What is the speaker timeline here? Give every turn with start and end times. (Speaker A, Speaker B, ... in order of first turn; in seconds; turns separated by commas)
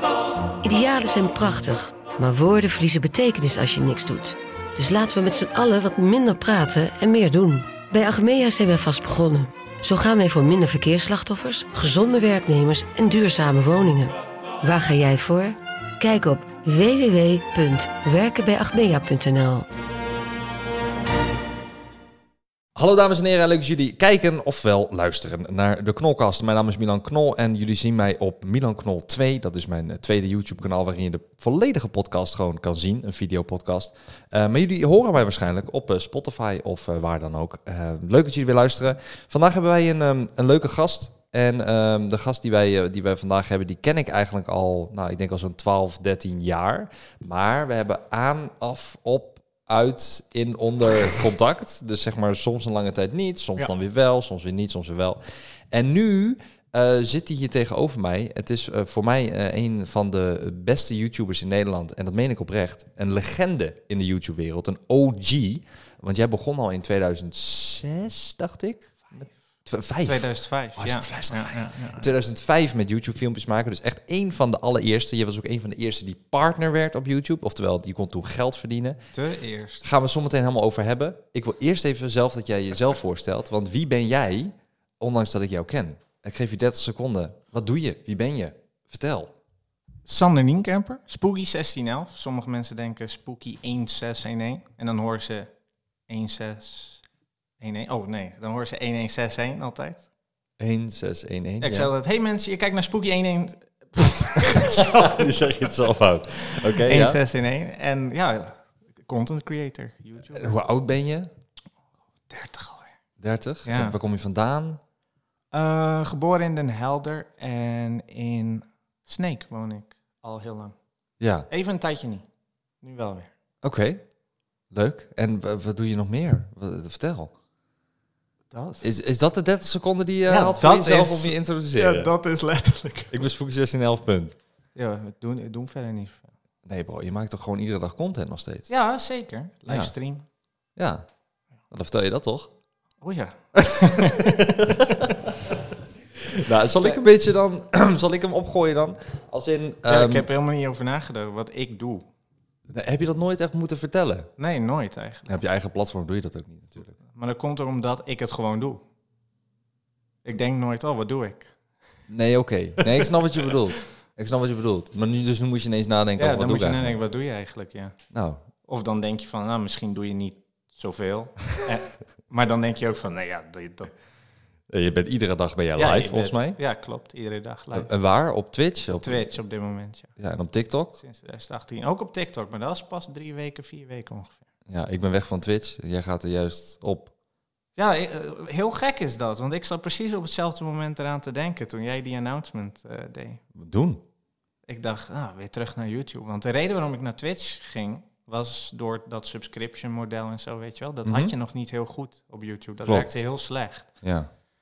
Speaker A: 0.6-19.6, Speaker B: 22.8-79.0, Speaker C: 70.0-72.1, Speaker C: 79.1-79.9, Speaker B: 79.8-89.3, Speaker C: 90.0-95.5, Speaker C: 96.1-97.0, Speaker C: 97.6-100.0, Speaker B: 100.6-101.9, Speaker C: 101.6-105.6, Speaker B: 104.3-107.2, Speaker C: 106.4-110.5, Speaker B: 110.3-111.3, Speaker C: 112.3-112.9, Speaker B: 113.2-114.8, Speaker C: 113.6-114.0, Speaker C: 115.5-120.7, Speaker B: 121.2-121.5, Speaker C: 121.5-122.2, Speaker C: 122.8-123.3, Speaker B: 123.6-124.0, Speaker B: 124.7-127.3, Speaker C: 128.5-128.9, Speaker B: 128.8-132.1, Speaker C: 130.2-133.2, Speaker B: 133.1-134.4, Speaker C: 134.7-136.3, Speaker B: 136.6-138.7, Speaker C: 138.7-140.2, Speaker B: 139.7-139.9, Speaker B: 140.8-141.1, Speaker B: 141.7-142.5, Speaker C: 143.0-144.5, Speaker B: 143.6-145.6, Speaker B: 146.2-150.3, Speaker C: 149.8-152.1, Speaker B: 152.7-154.3, Speaker C: 154.4-155.4, Speaker B: 155.3-157.0, Speaker C: 157.0-158.8, Speaker C: 160.2-161.5, Speaker B: 162.1-167.0, Speaker C: 162.8-163.1, Speaker C: 166.2-167.9, Speaker B: 168.1-168.4, Speaker C: 168.7-173.9, Speaker B: 174.7-176.6, Speaker C: 175.8-177.9, Speaker B: 177.7-179.3, Speaker C: 179.0-180.1, Speaker B: 180.2-180.9, Speaker C: 180.9-184.4, Speaker B: 184.7-187.1, Speaker C: 187.8-193.4, Speaker B: 193.6-194.0, Speaker C: 194.7-203.9, Speaker B: 201.0-201.3, Speaker B: 202.8-203.1, Speaker B: 204.0-204.3